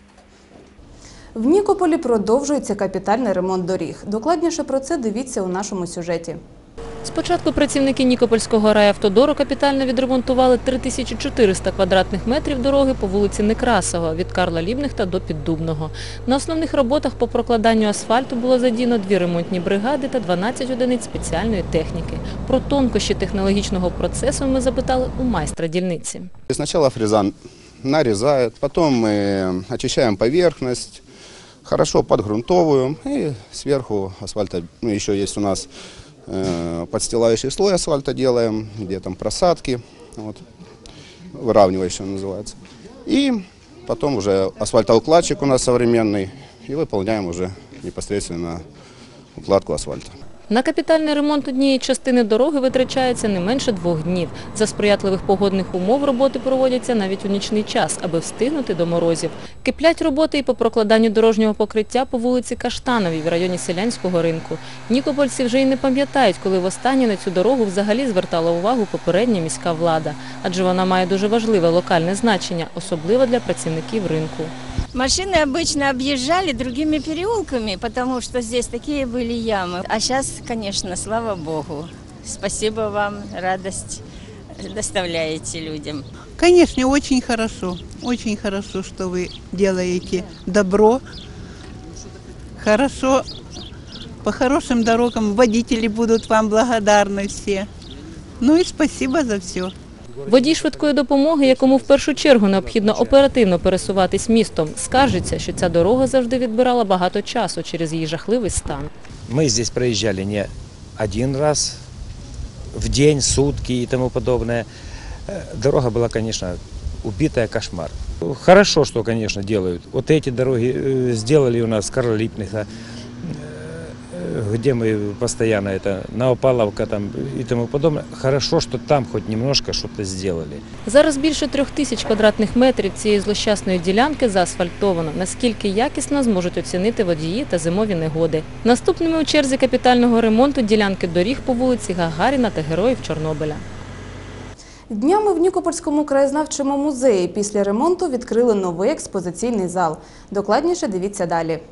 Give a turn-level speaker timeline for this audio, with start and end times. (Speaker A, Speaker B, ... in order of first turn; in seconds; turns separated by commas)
Speaker A: 1.3-6.4, Speaker B: 7.0-26.3, Speaker C: 26.5-31.0, Speaker C: 31.6-35.7, Speaker C: 36.3-40.4, Speaker C: 41.3-48.6, Speaker C: 49.4-50.1, Speaker B: 50.5-74.5, Speaker D: 74.9-84.0, Speaker D: 84.6-86.0, Speaker E: 86.4-91.0, Speaker E: 92.6-93.3, Speaker E: 94.2-97.7, Speaker E: 98.4-99.7, Speaker B: 100.3-108.9, Speaker F: 109.3-111.8, Speaker F: 112.7-114.7, Speaker F: 115.3-122.7, Speaker F: 123.2-130.6, Speaker B: 130.8-143.6, Speaker A: 144.9-151.6